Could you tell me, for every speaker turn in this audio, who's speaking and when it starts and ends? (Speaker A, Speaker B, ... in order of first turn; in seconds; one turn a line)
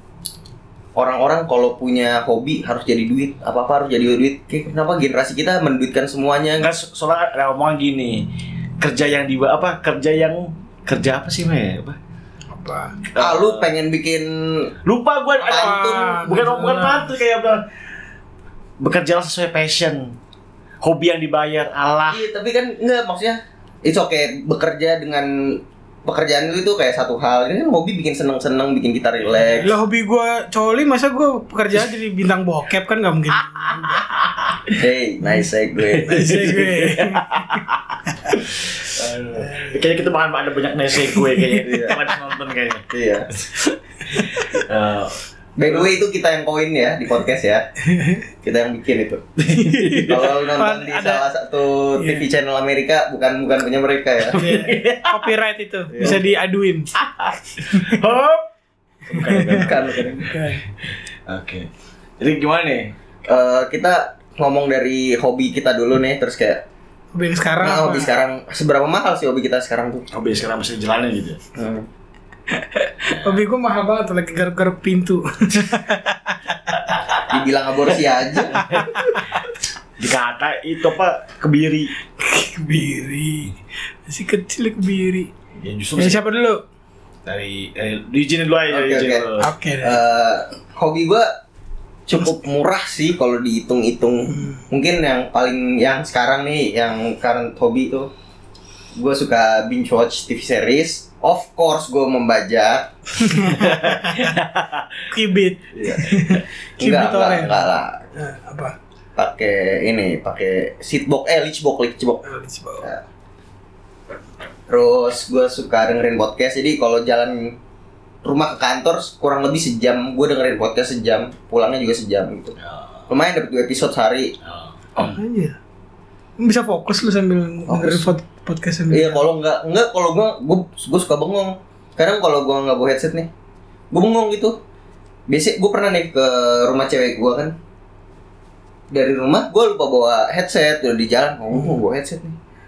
Speaker A: 1.0-6.7
Speaker B: 6.6-12.0
Speaker C: 12.5-13.0
Speaker B: 13.1-13.7
Speaker A: 13.2-14.7
Speaker B: 14.8-17.6
Speaker A: 15.4-16.2
Speaker C: 15.4-17.1
Speaker B: 18.8-20.2
Speaker B: 20.8-22.3
Speaker A: 22.1-29.7
Speaker C: 29.6-34.1
Speaker B: 33.8-34.8
Speaker A: 34.8-36.2
Speaker B: 35.9-42.9
Speaker C: 36.0-38.4
Speaker C: 39.4-39.8
Speaker C: 41.1-41.6
Speaker A: 41.7-42.0
Speaker A: 42.9-43.3
Speaker B: 44.1-45.9
Speaker C: 44.1-44.4
Speaker A: 45.6-47.6
Speaker C: 47.9-48.2
Speaker A: 48.4-49.2
Speaker B: 49.4-50.3
Speaker C: 49.5-51.3
Speaker A: 50.1-54.4
Speaker C: 52.0-52.3
Speaker B: 54.3-55.3
Speaker C: 54.4-56.9
Speaker A: 56.0-56.2
Speaker B: 57.0-58.5
Speaker C: 57.6-58.0
Speaker B: 59.0-61.7
Speaker C: 59.1-59.7
Speaker A: 59.5-60.3
Speaker C: 60.2-60.6
Speaker B: 62.2-63.0
Speaker A: 63.3-66.6
Speaker C: 67.1-68.1
Speaker A: 67.6-70.0
Speaker B: 70.1-71.4
Speaker A: 71.6-71.9
Speaker C: 72.5-76.8
Speaker B: 76.9-77.3
Speaker A: 77.3-78.7
Speaker B: 78.5-79.2
Speaker C: 78.6-79.4
Speaker B: 80.0-81.9
Speaker C: 82.2-85.3
Speaker B: 85.6-86.2
Speaker C: 86.0-86.6
Speaker B: 87.2-89.5
Speaker A: 88.7-89.2
Speaker C: 89.4-90.0
Speaker A: 89.8-91.3
Speaker A: 92.1-98.1
Speaker A: 99.0-102.9
Speaker C: 103.2-104.4
Speaker B: 103.6-105.1
Speaker C: 105.1-107.6
Speaker A: 105.8-106.1
Speaker A: 106.8-108.0
Speaker C: 108.2-108.8
Speaker A: 109.2-112.2
Speaker C: 112.2-112.9
Speaker A: 114.7-117.6
Speaker A: 118.2-122.6
Speaker B: 122.6-123.0
Speaker A: 123.1-124.3
Speaker B: 124.4-125.2
Speaker C: 125.0-125.6
Speaker C: 126.4-129.2
Speaker A: 127.7-128.1
Speaker A: 128.9-133.3
Speaker A: 133.9-134.6
Speaker A: 135.3-137.6
Speaker A: 138.9-142.3